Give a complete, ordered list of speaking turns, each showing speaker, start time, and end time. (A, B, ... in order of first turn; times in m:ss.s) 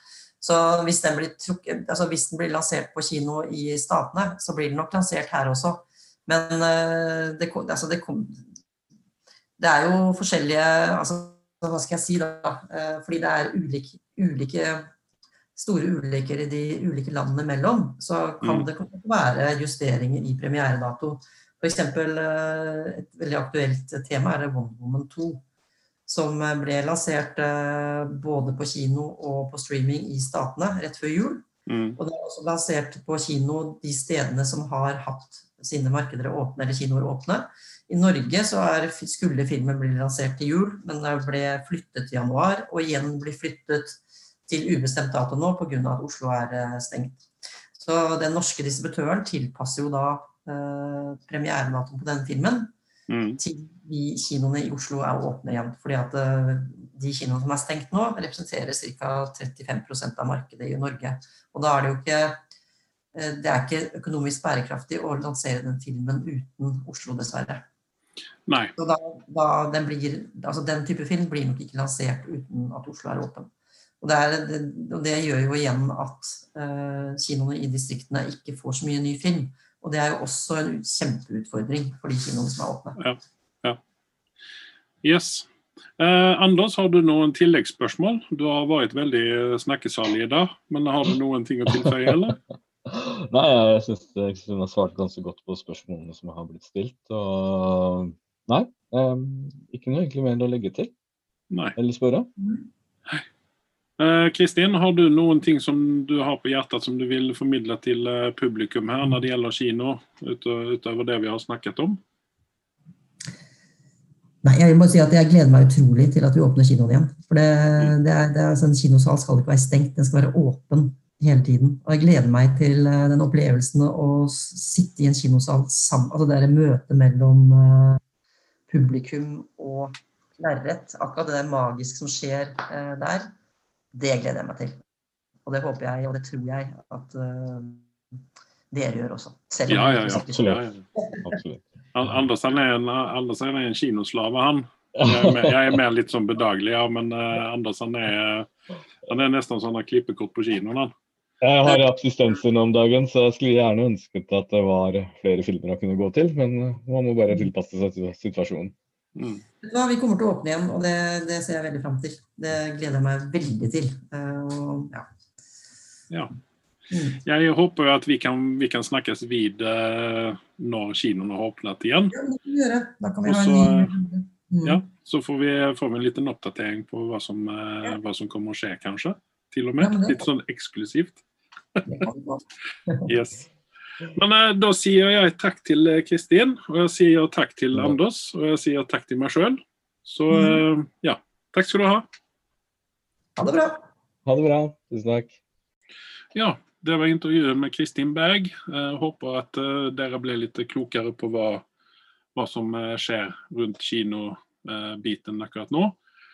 0:00.4-0:08.4 A
0:09.6-0:14.9 A
0:15.6-0:25.4 A
0:18.4-0:18.7 B
0:26.1-0:31.4 A
0:31.7-0:32.0 B
0:32.0-0:47.2 A
0:47.8-0:52.7 A
0:53.1-0:53.4 B
0:53.4-1:02.4 A
1:03.2-1:07.6 A
1:08.5-1:08.7 B
1:08.8-1:13.5 A
1:14.0-1:23.0 A
1:23.0-1:23.8 B
1:25.0-1:25.5 B
1:26.0-1:32.4 B
1:31.8-1:32.2 C
1:32.9-1:40.9 C
1:41.5-1:41.8 B
1:41.8-1:42.3 C
1:44.0-1:52.0 B
1:54.4-2:08.0 A
2:08.7-2:13.3 A
2:13.9-2:14.8 A
2:15.5-2:17.9 A
2:18.7-2:21.2 A
2:19.7-2:20.8 B
2:20.3-2:21.7 C
2:22.0-2:28.5 B
2:25.0-2:25.6 C
2:29.1-2:30.9 B
2:31.4-2:38.7 C
2:39.2-2:39.4 B
2:39.6-2:45.0 A
2:46.9-2:47.2 A
2:47.2-2:52.2 B
2:52.1-2:54.8 A
2:53.2-2:54.0 B
2:54.6-3:01.2 B
2:59.8-3:00.2 A
3:01.8-3:02.0 B
3:01.9-3:03.1 A
3:03.1-3:03.5 B
3:04.1-3:12.0 B
3:10.3-3:10.6 A
3:13.4-3:13.9 A
3:14.3-3:15.4 C
3:16.4-3:21.6 B
3:22.4-3:26.0 B